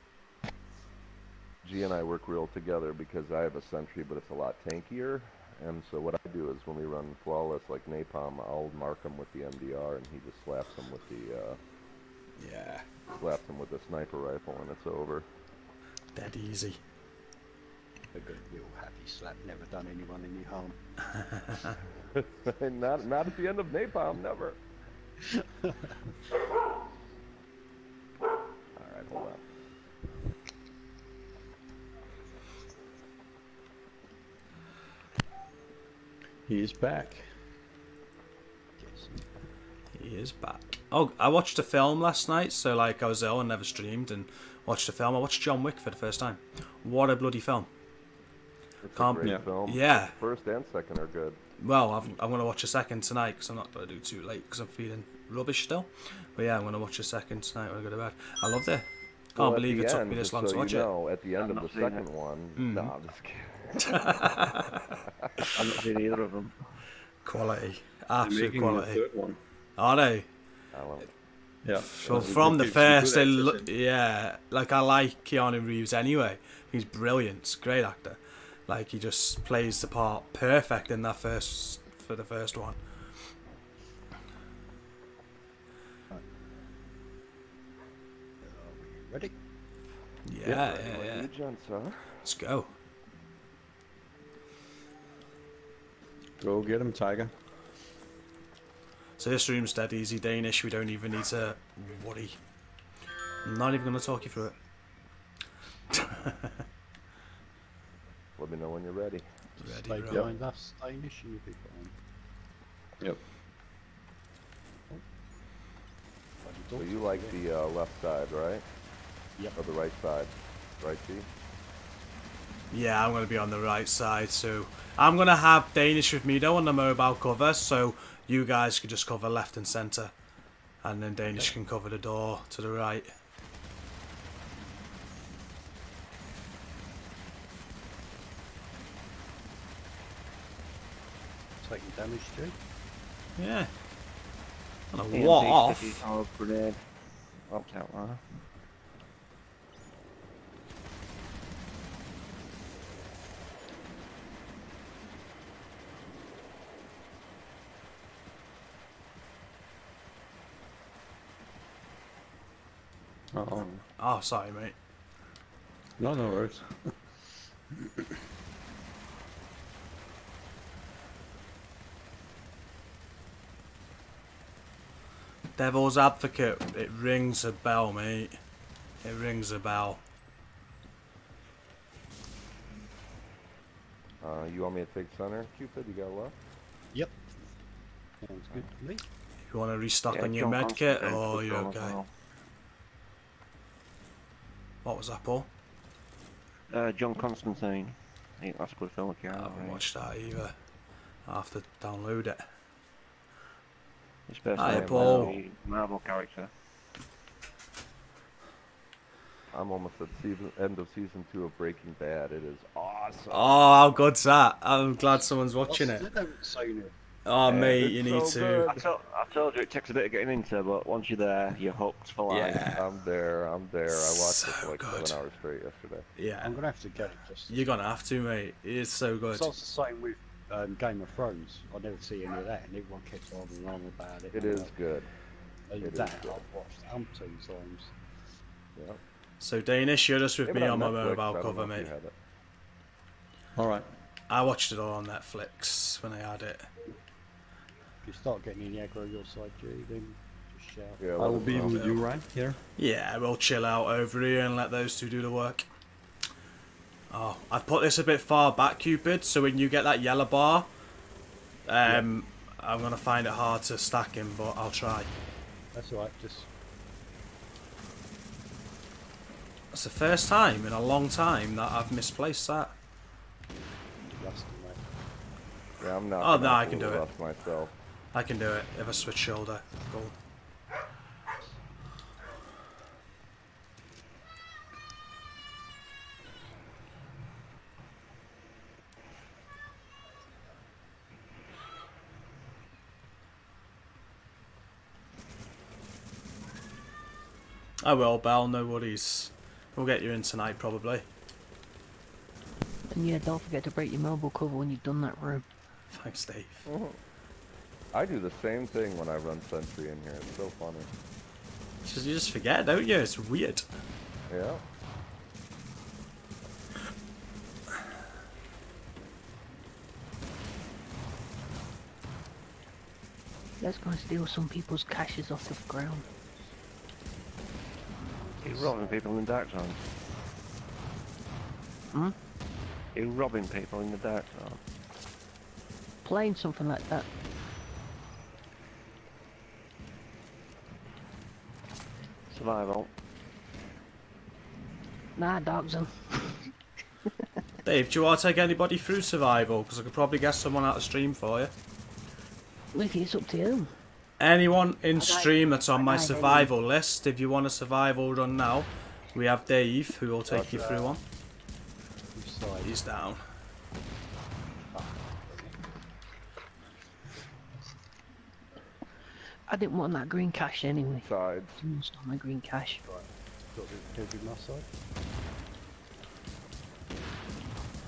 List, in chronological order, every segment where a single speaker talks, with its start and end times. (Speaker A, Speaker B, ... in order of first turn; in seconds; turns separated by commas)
Speaker A: 1.6-11.6, Speaker B: 12.4-12.9, Speaker A: 13.1-15.3, Speaker B: 16.1-16.8, Speaker C: 18.1-20.8, Speaker A: 22.1-24.6, Speaker C: 25.2-25.9, Speaker A: 28.7-29.4, Speaker D: 36.5-37.3, Speaker C: 38.8-39.2, Speaker B: 39.9-47.7, Speaker A: 48.8-51.4, Speaker B: 48.9-50.1, Speaker B: 51.6-60.9, Speaker A: 59.4-64.2, Speaker E: 61.4-62.0, Speaker B: 62.6-62.9, Speaker B: 63.8-65.5, Speaker E: 65.5-66.6, Speaker B: 67.2-69.0, Speaker D: 68.2-69.4, Speaker B: 69.8-70.3, Speaker A: 70.7-71.1, Speaker D: 71.6-73.7, Speaker B: 71.9-82.8, Speaker A: 72.0-72.4, Speaker C: 88.4-89.3, Speaker B: 90.2-91.3, Speaker A: 90.5-92.2, Speaker B: 92.2-92.7, Speaker D: 96.4-97.3, Speaker B: 99.2-102.4, Speaker B: 103.4-104.5, Speaker B: 105.9-106.6, Speaker A: 108.4-109.2, Speaker B: 109.6-110.3, Speaker C: 109.6-111.9, Speaker C: 116.4-117.4, Speaker A: 116.8-118.6, Speaker A: 119.5-121.3, Speaker B: 122.7-130.1, Speaker B: 130.8-133.1, Speaker C: 141.6-142.5, Speaker B: 143.4-143.7, Speaker B: 144.9-146.0, Speaker E: 145.1-146.8, Speaker E: 147.5-148.2, Speaker D: 163.3-163.8, Speaker B: 164.0-164.8, Speaker D: 166.0-166.9, Speaker B: 175.6-178.4, Speaker B: 179.0-180.0, Speaker A: 184.2-186.3, Speaker C: 188.2-189.0, Speaker B: 189.5-192.0, Speaker E: 190.1-192.1, Speaker B: 194.8-195.5, Speaker E: 196.7-199.8, Speaker B: 199.3-200.5, Speaker B: 201.2-202.4, Speaker E: 204.3-206.5, Speaker B: 204.6-205.3, Speaker A: 204.6-205.4, Speaker A: 209.5-213.8, Speaker B: 213.3-216.1, Speaker C: 215.7-216.9, Speaker B: 217.2-218.7, Speaker A: 217.4-218.8, Speaker E: 218.7-222.7, Speaker B: 222.3-222.8, Speaker A: 222.7-226.1, Speaker B: 223.9-225.2, Speaker B: 226.2-226.6, Speaker C: 226.4-227.7, Speaker B: 227.5-229.5, Speaker C: 229.3-234.7, Speaker A: 234.3-235.1, Speaker C: 235.7-237.9, Speaker A: 235.8-236.4, Speaker A: 238.7-239.0, Speaker B: 239.4-241.9, Speaker A: 240.4-242.1, Speaker D: 243.6-243.9, Speaker B: 244.3-246.7, Speaker C: 248.0-251.0, Speaker A: 251.0-251.9, Speaker D: 251.2-252.6, Speaker B: 251.7-252.0, Speaker B: 252.8-255.7, Speaker B: 257.1-260.7, Speaker B: 261.7-265.1, Speaker C: 261.9-262.1, Speaker C: 265.7-266.5, Speaker B: 269.7-272.7, Speaker C: 274.0-274.8, Speaker A: 275.8-277.7, Speaker B: 276.2-277.1, Speaker B: 278.1-280.1, Speaker B: 297.8-301.0, Speaker F: 302.9-305.4, Speaker B: 305.9-306.7, Speaker A: 306.7-307.0, Speaker A: 307.9-310.9, Speaker B: 311.8-313.7, Speaker A: 314.3-314.6, Speaker F: 323.6-326.0, Speaker C: 328.2-329.0, Speaker E: 328.4-329.8, Speaker E: 332.9-334.6, Speaker F: 336.0-337.1, Speaker E: 342.3-342.9, Speaker F: 345.1-346.4, Speaker B: 347.6-351.5, Speaker F: 352.7-353.7, Speaker B: 354.2-361.0, Speaker F: 355.0-356.5, Speaker A: 360.3-360.9, Speaker C: 362.1-362.7, Speaker B: 362.6-363.2, Speaker C: 364.7-365.6, Speaker F: 369.5-372.8, Speaker A: 371.0-371.5, Speaker C: 373.5-374.6